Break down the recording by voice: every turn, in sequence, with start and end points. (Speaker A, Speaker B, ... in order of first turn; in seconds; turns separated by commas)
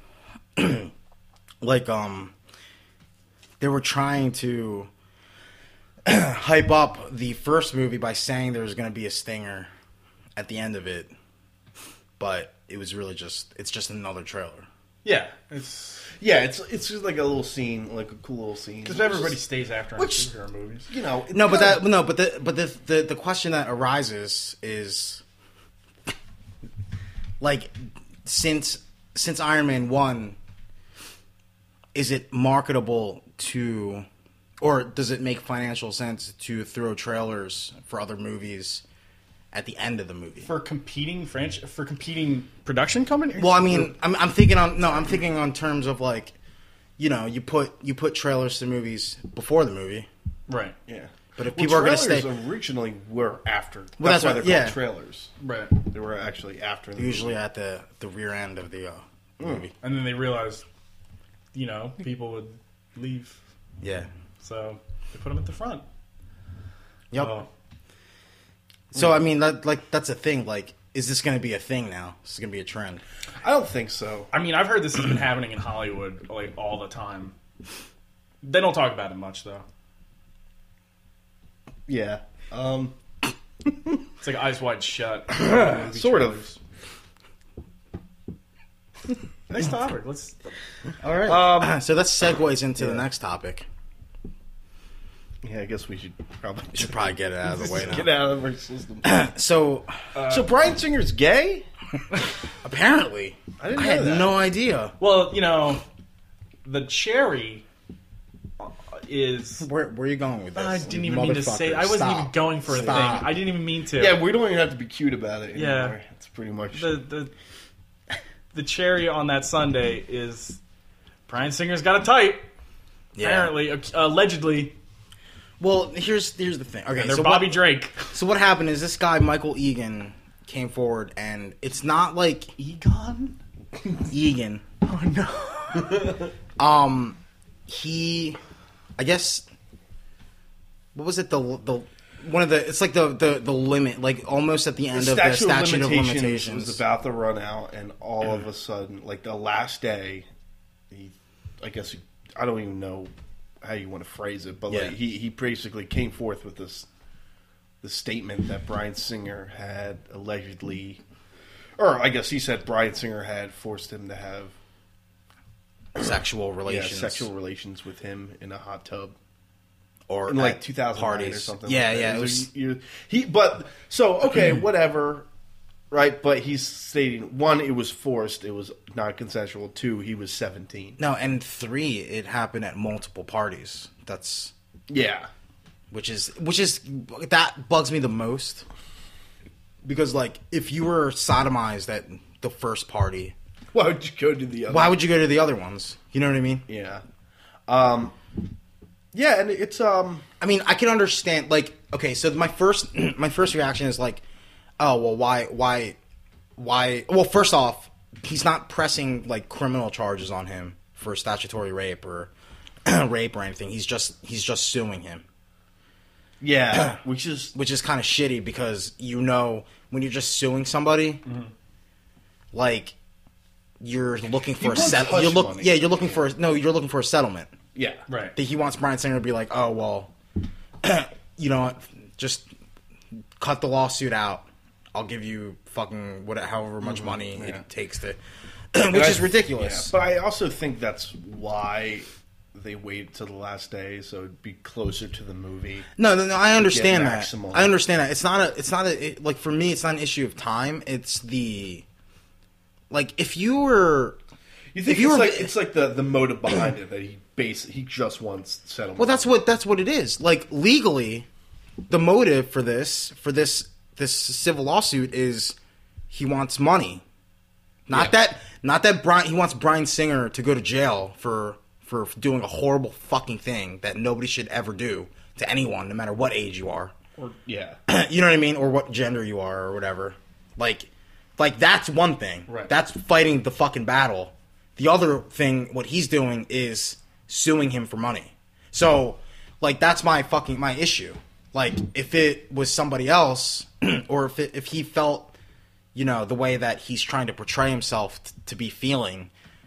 Speaker A: 0.6-0.9, Speaker A: 1.6-2.3, Speaker A: 3.6-4.9, Speaker A: 6.0-9.7, Speaker A: 10.3-11.1, Speaker A: 12.2-14.7, Speaker B: 15.0-16.1, Speaker C: 16.2-19.4, Speaker B: 18.8-20.9, Speaker C: 20.0-20.3, Speaker C: 20.9-21.9, Speaker A: 21.3-25.2, Speaker A: 27.4-30.4, Speaker A: 31.9-34.0, Speaker A: 34.6-38.8, Speaker A: 39.5-40.5, Speaker B: 40.4-43.9, Speaker A: 43.4-46.3, Speaker A: 47.0-50.1, Speaker B: 50.5-50.7, Speaker C: 50.9-57.3, Speaker A: 51.4-52.3, Speaker A: 54.0-54.8, Speaker B: 55.4-55.7, Speaker A: 57.0-59.7, Speaker C: 59.4-59.7, Speaker B: 59.8-60.6, Speaker B: 61.5-63.4, Speaker A: 63.8-64.1, Speaker B: 64.4-65.8, Speaker A: 67.1-67.4, Speaker B: 67.2-67.5, Speaker A: 68.9-73.0, Speaker C: 73.4-74.3, Speaker B: 74.3-77.3, Speaker B: 78.4-79.6, Speaker C: 81.9-83.0, Speaker C: 83.7-84.0, Speaker B: 84.2-86.6, Speaker C: 85.5-86.4, Speaker B: 89.5-90.4, Speaker A: 91.0-93.6, Speaker C: 91.2-91.8, Speaker C: 92.8-93.0, Speaker C: 95.4-99.2, Speaker A: 96.7-98.1, Speaker A: 99.0-99.9, Speaker B: 100.1-100.5, Speaker C: 100.3-101.7, Speaker A: 102.6-104.9, Speaker C: 103.6-104.3, Speaker B: 105.0-105.8, Speaker B: 106.6-107.6, Speaker B: 108.6-109.7, Speaker A: 109.6-113.3, Speaker B: 110.5-114.2, Speaker C: 114.0-117.0, Speaker B: 115.5-116.0, Speaker B: 116.7-117.3, Speaker B: 118.5-120.6, Speaker B: 121.3-122.5, Speaker A: 123.1-123.5, Speaker B: 123.2-124.7, Speaker A: 125.6-132.5, Speaker B: 126.9-128.1, Speaker B: 132.6-133.3, Speaker A: 134.1-134.6, Speaker B: 134.8-136.2, Speaker A: 136.6-138.4, Speaker A: 139.0-139.4, Speaker A: 140.9-146.8, Speaker C: 144.9-150.3, Speaker C: 150.9-156.9, Speaker A: 154.7-154.9, Speaker C: 157.8-161.0, Speaker C: 161.8-164.5, Speaker A: 165.9-167.3, Speaker C: 166.6-169.1, Speaker A: 170.1-172.5, Speaker C: 170.3-175.2, Speaker C: 175.9-181.0, Speaker A: 181.0-184.5, Speaker C: 184.9-185.3, Speaker A: 185.9-188.6, Speaker A: 189.8-193.3, Speaker C: 193.7-195.0, Speaker A: 194.7-196.6, Speaker C: 196.7-197.0, Speaker C: 197.7-198.1, Speaker C: 199.1-200.2, Speaker A: 200.4-204.2, Speaker A: 204.8-206.0, Speaker A: 206.6-212.3, Speaker A: 212.8-215.2, Speaker C: 216.4-217.5, Speaker A: 216.7-217.0, Speaker A: 217.5-221.2, Speaker B: 221.2-221.5, Speaker A: 222.5-222.9, Speaker A: 223.8-227.5, Speaker C: 224.6-226.2, Speaker C: 227.7-228.0, Speaker B: 228.1-228.3, Speaker A: 228.3-230.1, Speaker A: 230.8-232.5, Speaker A: 233.4-238.2, Speaker C: 236.8-237.6, Speaker A: 238.7-239.9, Speaker C: 238.9-245.9, Speaker A: 246.0-251.8, Speaker C: 246.6-247.8, Speaker A: 252.9-254.2, Speaker C: 254.7-259.3, Speaker A: 254.8-255.5, Speaker A: 259.0-261.3, Speaker A: 261.9-265.6, Speaker A: 266.1-267.0, Speaker A: 267.9-276.9, Speaker C: 277.2-277.8, Speaker A: 277.9-295.3, Speaker A: 295.9-299.3